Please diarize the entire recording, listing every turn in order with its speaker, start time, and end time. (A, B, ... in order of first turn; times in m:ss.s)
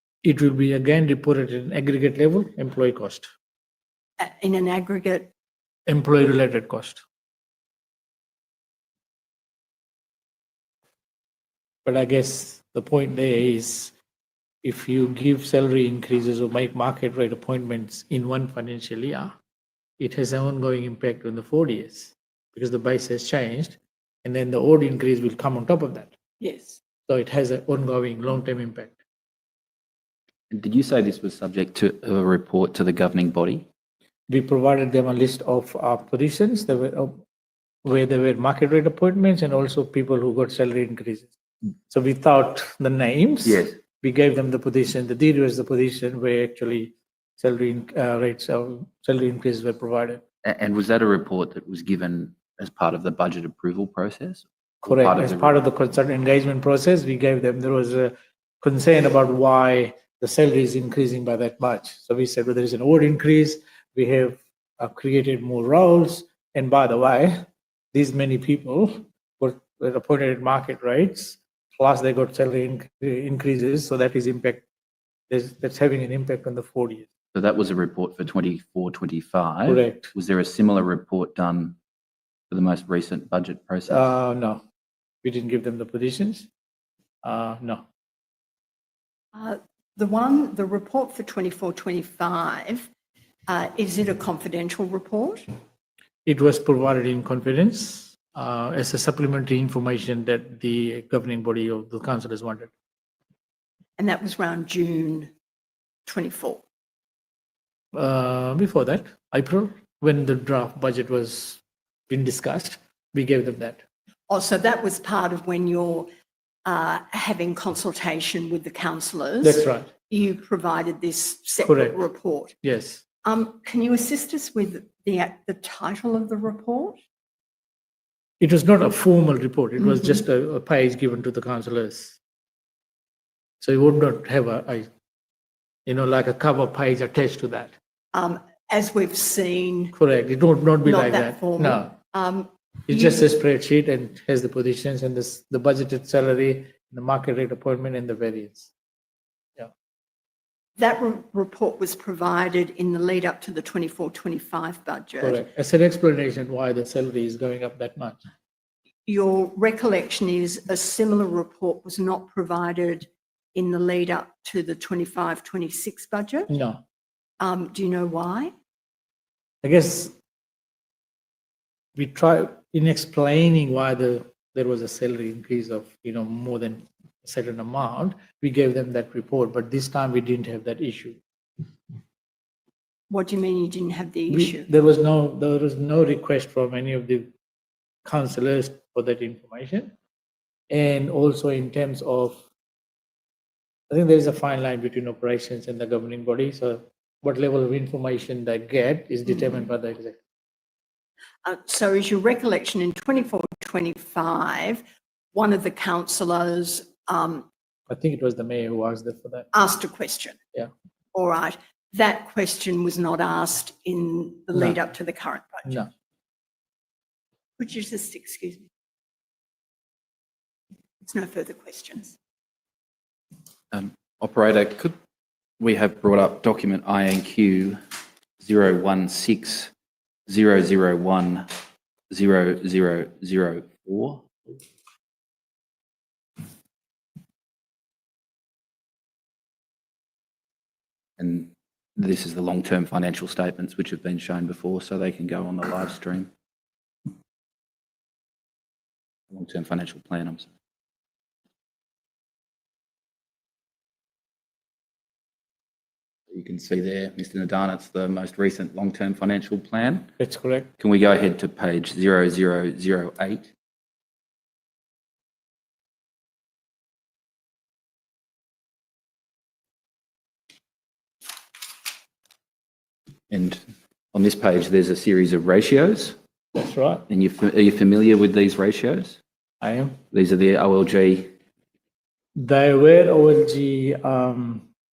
0:00.2-0:03.3 A
0:04.2-0:05.3 B
0:05.8-0:07.0 A
0:11.8-0:13.9 A
0:14.6-0:19.3 A
0:20.0-0:26.1 A
0:26.4-0:26.8 B
0:27.1-0:29.0 A
0:30.5-0:33.6 C
0:34.3-0:37.2 A
0:37.8-0:41.3 A
0:41.9-0:50.2 A
0:43.4-0:43.8 C
0:50.4-0:55.6 C
0:54.8-1:07.4 A
1:07.9-1:14.6 A
1:15.3-1:17.1 A
1:17.3-1:21.8 C
1:19.6-1:20.1 A
1:22.5-1:24.0 C
1:23.9-1:24.6 A
1:25.2-1:26.5 A
1:27.2-1:27.8 A
1:29.3-1:32.9 B
1:33.5-1:35.4 B
1:36.2-1:42.7 A
1:44.0-1:45.3 B
1:46.0-1:46.6 B
1:47.9-1:53.8 A
1:54.3-1:56.1 B
1:56.6-2:02.5 B
1:59.4-1:59.9 A
2:01.6-2:02.0 A
2:02.6-2:03.0 A
2:03.2-2:07.0 B
2:08.4-2:12.2 A
2:13.6-2:14.9 A
2:15.8-2:17.7 A
2:18.1-2:20.0 B
2:19.9-2:21.9 A
2:20.8-2:23.3 B
2:22.9-2:28.7 A
2:30.8-2:35.4 B
2:35.2-2:38.2 A
2:39.0-2:46.5 B
2:46.5-2:46.8 A
2:47.4-2:48.5 B
2:49.6-2:50.1 A
2:52.0-3:01.2 A
3:03.1-3:04.7 B
3:04.3-3:07.3 A
3:08.0-3:09.9 A
3:10.7-3:12.4 A
3:13.9-3:20.2 A
3:21.4-3:24.8 B
3:25.3-3:27.5 B
3:27.9-3:29.5 A
3:29.5-3:30.4 B
3:31.1-3:35.8 B
3:37.6-3:38.7 B
3:41.0-3:42.2 B
3:43.7-3:44.9 C
3:45.6-3:47.8 C
3:48.4-3:49.7 C
3:50.3-3:51.5 C
3:52.1-3:54.3 C
4:01.2-4:06.3 C
4:09.3-4:10.5 C
4:16.3-4:20.1 C
4:20.2-4:20.7 A
4:20.8-4:23.5 C
4:33.3-4:33.6 C
4:34.1-4:36.2 C
4:36.5-4:37.0 A
4:37.1-4:39.2 C
4:39.6-4:40.0 A
4:40.1-4:41.3 C
4:42.4-4:44.6 A